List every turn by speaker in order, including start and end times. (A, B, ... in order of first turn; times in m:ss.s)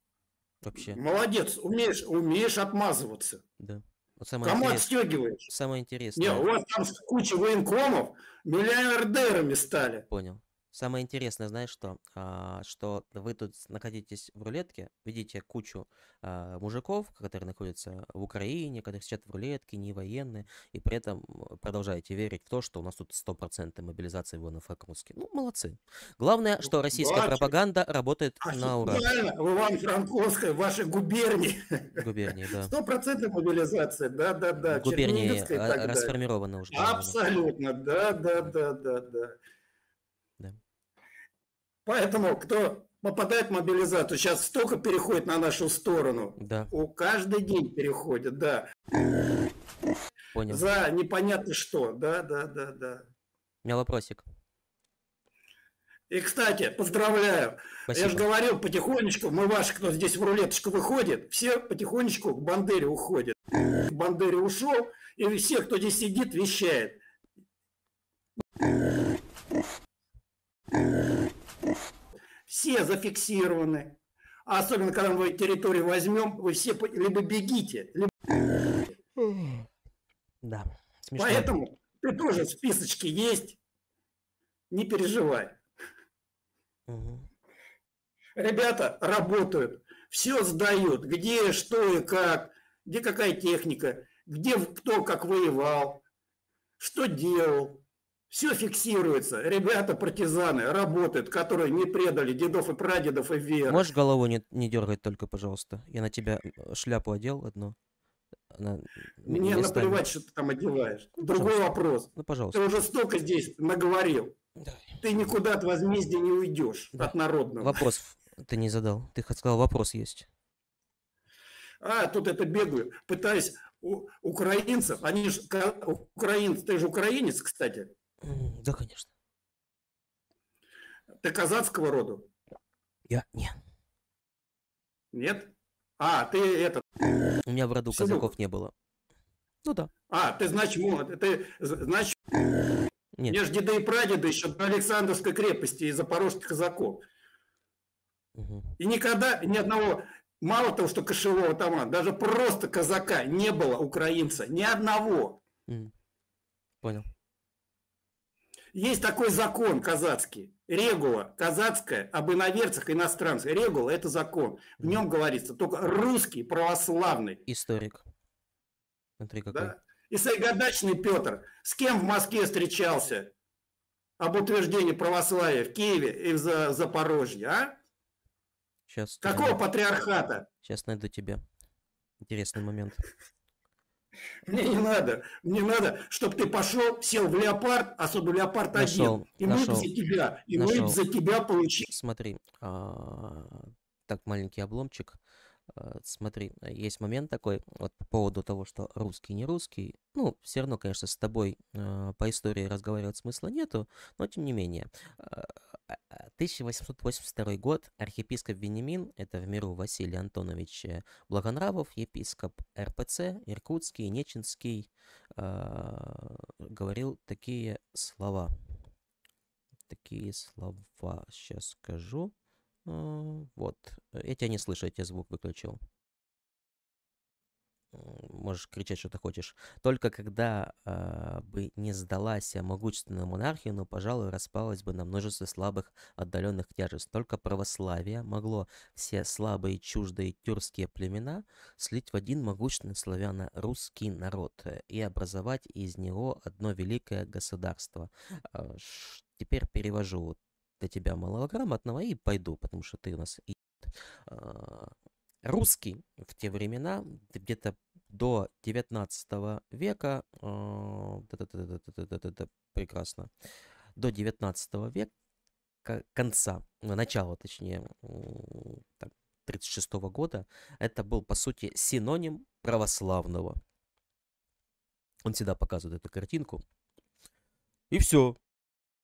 0:00.6-0:01.0 A
0:00.8-0:03.4 B
0:03.6-0:04.9 A
0:04.4-0:05.5 B
0:05.5-0:06.4 A
0:06.2-0:10.0 B
0:10.1-0:29.1 A
0:26.8-0:27.5 B
0:28.4-0:32.0 B
0:31.9-0:32.7 A
0:32.5-0:36.1 B
0:34.6-0:37.2 A
0:36.7-0:39.4 B
0:41.8-0:48.7 B
0:46.4-0:46.7 A
0:50.3-0:50.6 A
0:50.5-0:53.0 B
0:53.6-0:54.2 A
0:56.1-1:07.0 B
0:57.9-0:58.2 A
1:12.5-1:18.1 B
1:19.2-1:19.6 A
1:20.4-1:21.5 A
1:21.2-1:23.6 B
1:24.7-1:25.6 B
1:26.9-1:27.3 A
1:28.4-1:36.0 B
1:36.8-1:43.8 B
1:43.7-1:47.8 A
1:48.5-1:50.0 A
1:49.2-1:54.3 B
1:51.2-1:52.6 A
1:54.6-1:55.3 A
1:55.0-1:57.8 B
1:56.9-2:00.3 A
2:01.8-2:07.9 B
2:08.2-2:09.1 A
2:11.2-2:12.3 B
2:13.1-2:13.6 A
2:15.1-2:16.8 B
2:17.4-2:18.7 A
2:17.9-2:18.3 B
2:20.1-2:22.2 B
2:23.3-2:27.0 B
2:28.4-2:28.7 A
2:28.8-2:35.4 B
2:36.8-2:37.1 A
2:38.7-2:47.4 B
2:47.4-2:48.0 A
2:49.2-2:49.7 A
2:49.5-2:53.3 B
2:54.2-2:57.7 B
2:58.9-2:59.6 A
2:59.2-3:00.4 B
3:00.6-3:01.4 A
3:02.2-3:03.0 A
3:04.5-3:11.9 B
3:08.7-3:09.9 A
3:10.5-3:11.0 A
3:11.8-3:15.2 A
3:15.7-3:38.5 A
3:39.9-3:42.3 A
3:42.8-3:45.8 A
3:47.9-4:13.6 A
4:14.3-4:23.3 A
4:24.0-4:25.1 A
4:25.8-4:33.6 A
4:35.2-4:36.6 A
4:37.9-4:38.4 A